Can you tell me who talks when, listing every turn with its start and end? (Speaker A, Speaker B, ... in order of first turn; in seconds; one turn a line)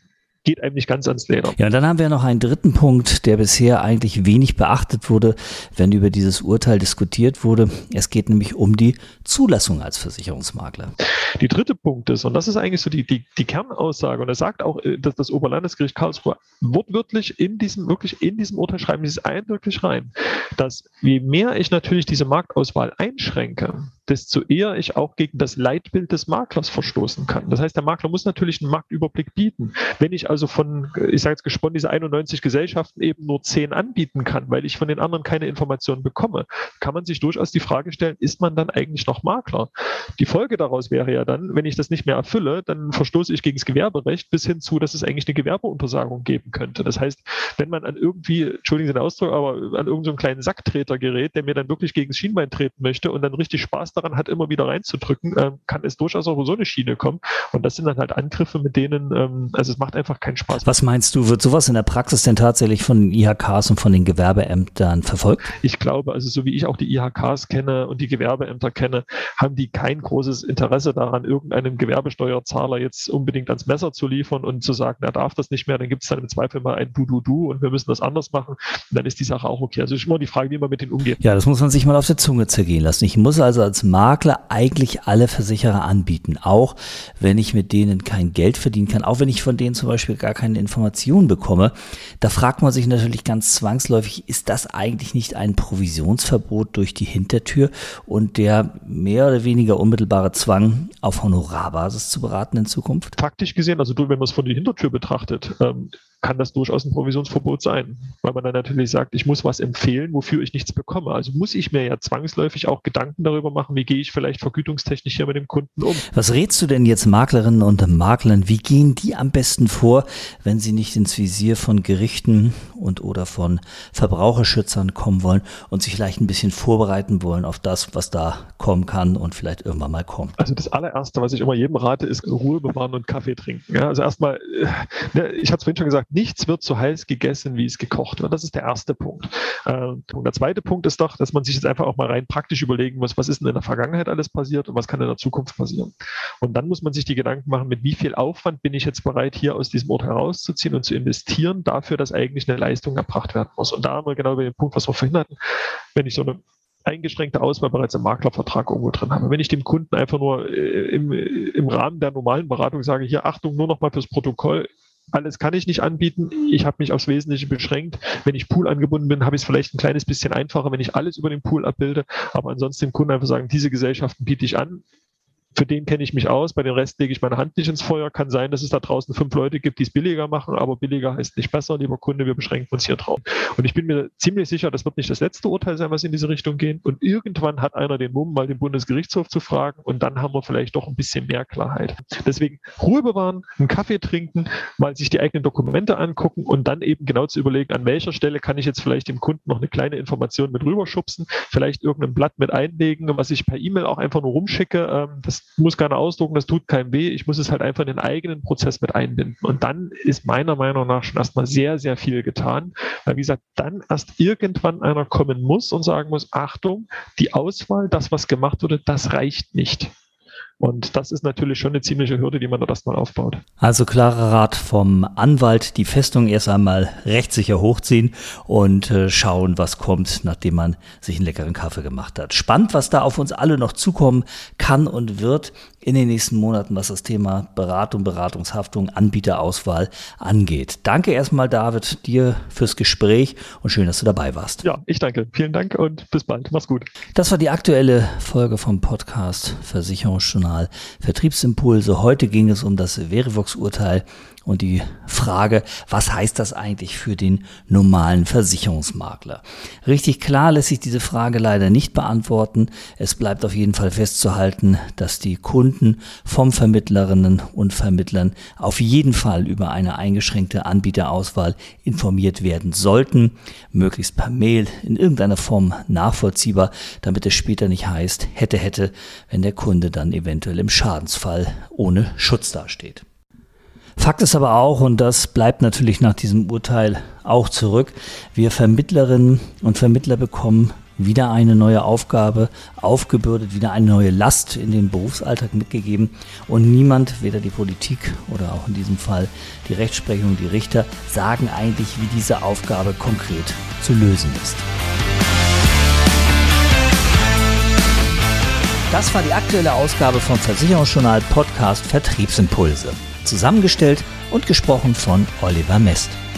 Speaker A: 0.4-1.6
Speaker B: 1.6-10.9
Speaker A: 11.4-60.7
Speaker B: 60.6-65.5
Speaker A: 65.6-81.2
Speaker B: 81.2-103.2
Speaker A: 103.2-116.0
Speaker B: 116.1-130.4
Speaker A: 130.4-155.4
Speaker A: 155.9-174.8
Speaker A: 175.6-219.9
Speaker A: 220.6-223.4
Speaker B: 223.6-244.7
Speaker A: 244.6-246.9
Speaker B: 247.2-283.0
Speaker B: 284.0-304.6
Speaker B: 308.9-316.2